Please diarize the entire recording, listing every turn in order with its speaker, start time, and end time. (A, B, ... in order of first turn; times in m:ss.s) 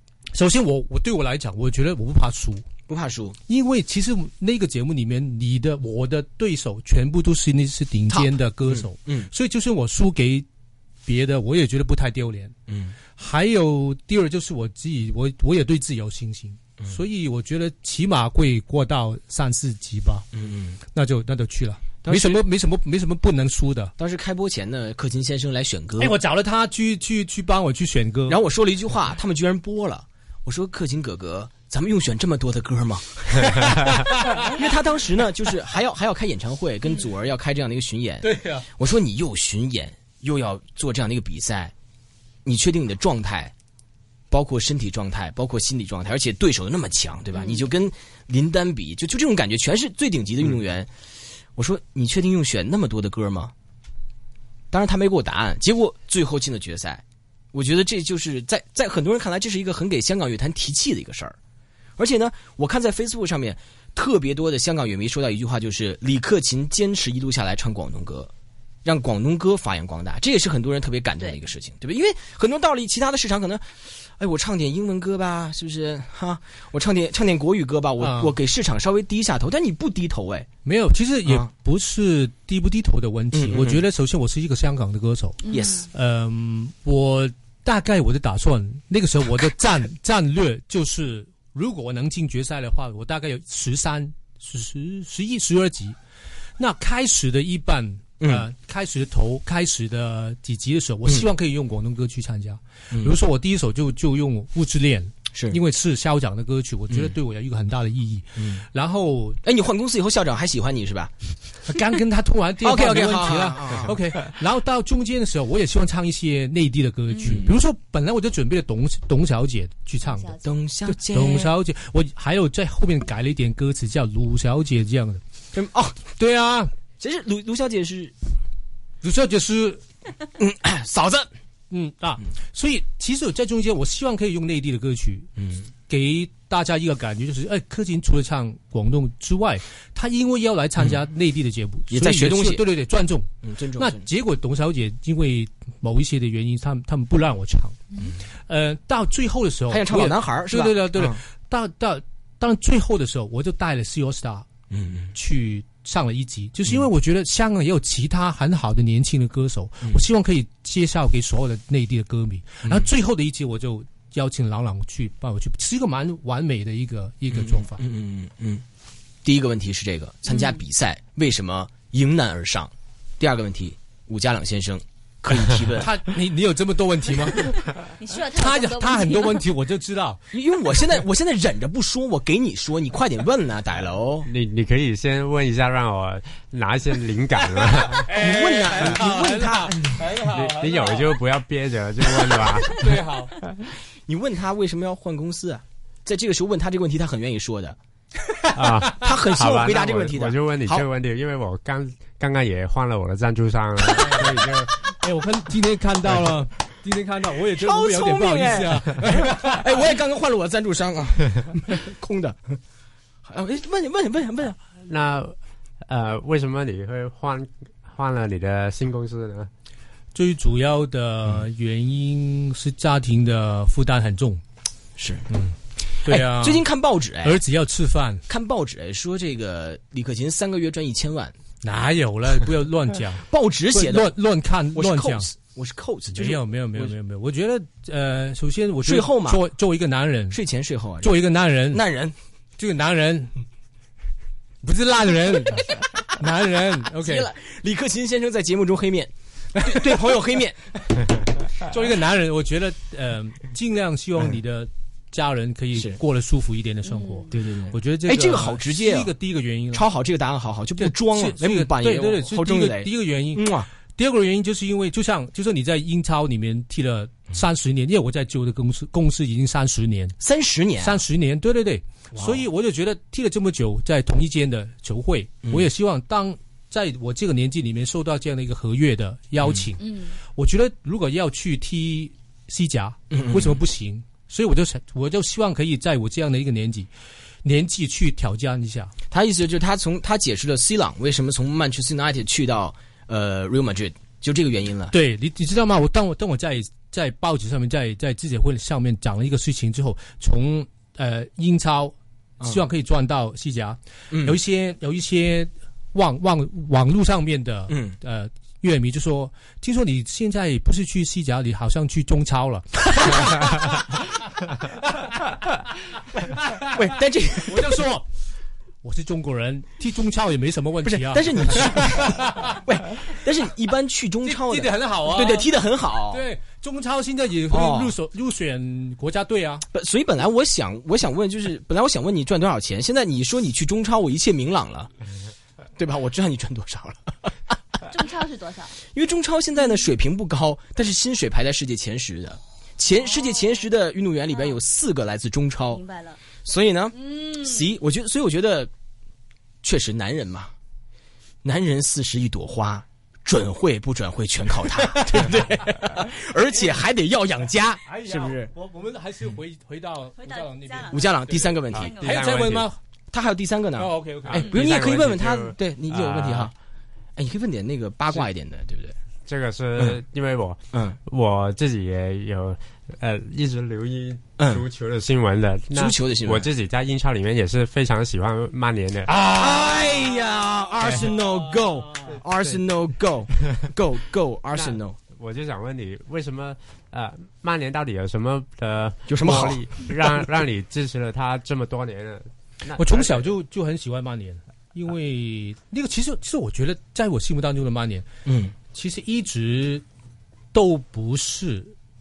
0:00.3-0:02.6 A
0:02.9-0:03.4 B
0:03.5-0:10.4 A
0:08.1-0:09.3 B
0:11.0-0:12.5 A
0:12.7-0:13.0 B
0:13.2-0:20.3 A
0:20.3-0:20.8 B
0:20.9-0:23.9 A
0:22.0-0:22.4 B
0:24.0-0:26.2 B
0:26.0-0:28.4 A
0:28.3-0:41.7 B
0:33.6-0:34.5 A
0:38.2-0:38.7 A
0:42.4-0:43.5 B
0:44.3-0:50.9 B
0:47.3-0:47.7 C
0:51.6-0:53.5 B
0:54.7-1:01.4 B
1:02.0-1:08.3 B
1:08.8-1:20.5 B
1:18.0-1:18.3 A
1:20.6-1:36.0 A
1:23.3-1:23.8 B
1:25.4-1:25.9 C
1:25.5-1:25.9 B
1:36.6-1:49.4 A
1:38.2-1:38.5 B
1:42.9-1:43.2 B
1:45.3-1:45.6 B
1:48.4-1:48.6 B
1:49.4-1:51.1 B
1:51.6-2:00.4 A
1:52.6-1:54.0 B
1:57.1-1:57.5 C
2:00.0-2:00.4 C
2:00.4-2:01.5 B
2:00.9-2:05.2 A
2:05.5-2:06.0 B
2:06.2-2:06.7 A
2:07.0-2:08.1 B
2:09.0-2:09.8 A
2:10.4-2:11.3 B
2:11.7-2:15.3 A
2:15.4-2:15.7 B
2:15.9-2:27.8 A
2:21.9-2:22.7 B
2:23.4-2:24.1 B
2:28.5-2:34.5 A
2:29.7-2:31.2 B
2:34.7-2:35.1 B
2:35.1-2:47.8 A
2:47.3-2:48.6 B
2:49.2-2:55.9 B
2:50.3-2:50.6 C
2:55.8-3:00.2 A
2:58.0-2:59.4 C
3:00.3-3:04.3 B
3:04.2-3:08.2 D
3:07.8-3:11.2 A
3:08.1-3:10.0 B
3:10.3-3:13.0 D
3:12.7-3:13.4 A
3:14.0-3:17.8 B
3:18.4-3:19.0 A
3:18.5-3:24.7 D
3:18.9-3:20.8 B
3:23.9-3:24.4 A
3:25.0-3:29.6 A
3:27.5-3:32.6 B
3:33.2-3:34.6 B
3:34.8-3:39.5 D
3:40.1-3:44.4 A
3:45.0-3:45.2 B
3:45.3-3:46.6 A
3:46.0-3:47.4 B
3:47.2-3:48.2 A
3:48.3-3:51.3 B
3:51.6-3:55.3 A
3:53.2-3:54.1 B
3:54.7-3:56.9 B
3:56.1-4:00.4 A
3:58.8-3:59.4 B
4:00.3-4:01.2 B
4:01.0-4:01.8 A
4:01.7-4:02.1 B
4:02.6-4:03.3 A
4:04.6-4:07.3 A
4:07.0-4:10.6 B
4:09.6-4:09.9 A
4:11.6-4:19.8 A
4:16.8-4:17.3 C
4:17.3-4:19.1 B
4:19.7-4:23.7 B
4:20.8-4:30.2 A
4:30.2-4:31.0 B
4:30.8-4:46.9 A
4:32.1-4:32.4 B
4:39.8-4:40.1 C
4:43.1-4:43.6 B
4:47.4-4:48.9 A
4:49.1-4:54.9 B
4:54.9-5:13.8 A
5:04.1-5:04.4 B
5:07.7-5:08.0 B
5:16.2-5:16.8 A
5:16.7-5:17.8 B
5:17.4-5:18.1 A
5:18.8-5:22.6 A
5:20.8-5:26.2 B
5:24.2-5:25.5 A
5:26.1-5:29.6 A
5:27.5-5:27.9 B
5:29.7-5:34.9 B
5:35.8-5:37.3 B
5:37.8-5:38.8 C
5:38.9-5:45.8 B
5:45.7-5:46.2 C
5:46.4-5:48.7 B
5:46.9-5:47.8 C
5:49.6-5:50.5 B
5:51.4-5:58.5 B
5:55.0-5:55.3 A
5:57.8-6:02.8 A
6:00.2-6:02.2 C
6:00.9-6:02.0 B
6:01.7-6:02.7 D
6:03.1-6:06.5 B
6:03.8-6:04.5 A
6:04.3-6:06.5 D
6:07.2-6:09.0 B
6:09.2-6:19.2 D
6:10.7-6:11.0 B
6:14.4-6:14.6 B
6:15.7-6:16.5 B
6:19.1-6:20.0 A
6:19.1-6:25.0 B
6:24.5-6:33.3 D
6:29.1-6:30.2 B
6:32.8-6:38.1 A
6:38.2-6:38.5 B
6:38.7-6:39.8 A
6:40.5-6:41.7 A